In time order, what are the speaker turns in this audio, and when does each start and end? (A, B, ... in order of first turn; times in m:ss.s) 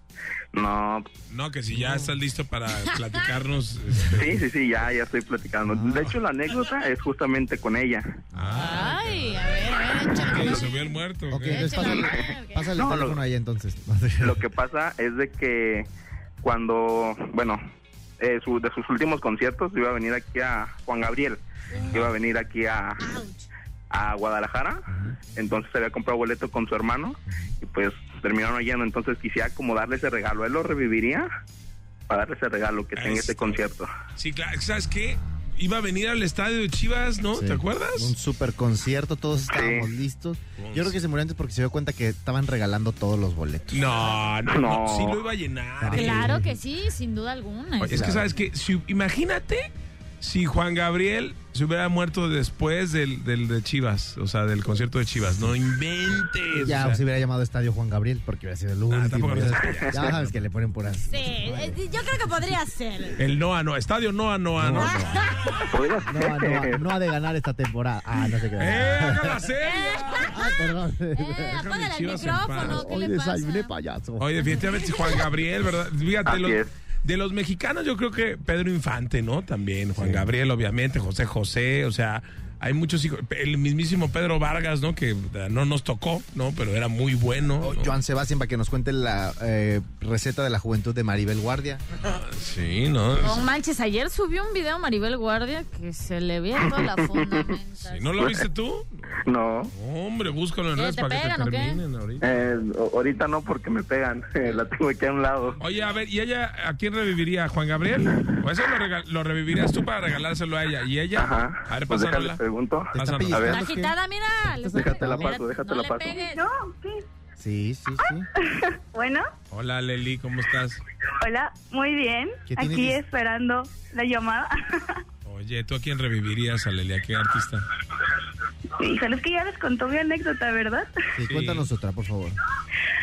0:00.5-0:01.1 A
0:01.3-0:04.4 B
0:01.8-0:02.1 C
0:02.8-0:03.2 D
0:04.1-0:08.2 A
0:05.6-0:06.1 C
0:08.4-0:09.3 C
0:08.4-0:09.5 B
0:08.6-0:10.8 D
0:10.0-0:12.0 B
0:11.3-0:14.5 C
0:11.5-0:12.8 D
0:12.8-0:13.2 A
0:14.2-0:15.9 A
0:16.4-0:17.6 A
0:18.2-0:23.1 A
0:21.7-0:22.1 D
0:23.0-0:23.4 D
0:23.9-0:31.3 A
0:24.9-0:25.2 C
0:32.1-0:33.9 A
0:32.9-0:33.6 B
0:34.2-0:38.1 B
0:37.3-0:43.9 C
0:39.5-0:39.9 A
0:40.6-0:41.0 B
0:43.7-0:46.4 B
0:44.5-0:45.2 A
0:45.8-0:46.5 C
0:45.9-0:48.1 D
0:47.8-0:57.0 B
0:47.9-0:48.3 C
0:56.5-1:01.8 C
0:58.9-1:00.4 B
0:59.8-1:00.0 A
1:01.1-1:03.2 D
1:03.2-1:05.0 B
1:04.6-1:05.3 C
1:04.8-1:05.7 D
1:05.7-1:06.8 A
1:06.1-1:09.5 C
1:08.6-1:10.4 B
1:09.6-1:13.7 D
1:10.3-1:11.6 C
1:11.5-1:12.9 B
1:12.6-1:14.4 C
1:14.2-1:28.0 B
1:14.4-1:15.2 D
1:16.3-1:16.7 A
1:20.0-1:20.3 C
1:27.6-1:31.8 C
1:32.0-1:33.5 B
1:33.2-1:38.2 D
1:37.9-1:39.2 B
1:39.2-1:39.7 A
1:39.7-1:42.4 B
1:40.8-1:41.8 D
1:42.2-1:45.6 A
1:45.6-1:52.4 B
1:51.2-1:53.6 A
1:52.9-1:53.6 B
1:53.0-1:55.4 C
1:53.5-1:56.4 D
1:54.8-1:56.2 A
1:56.1-1:57.0 E
1:57.4-1:58.3 C
1:58.6-1:59.2 E
1:59.5-2:00.8 B
2:01.2-2:04.5 E
2:02.5-2:03.0 C
2:05.2-2:07.7 B
2:08.8-2:10.9 E
2:11.2-2:12.4 C
2:11.3-2:11.7 B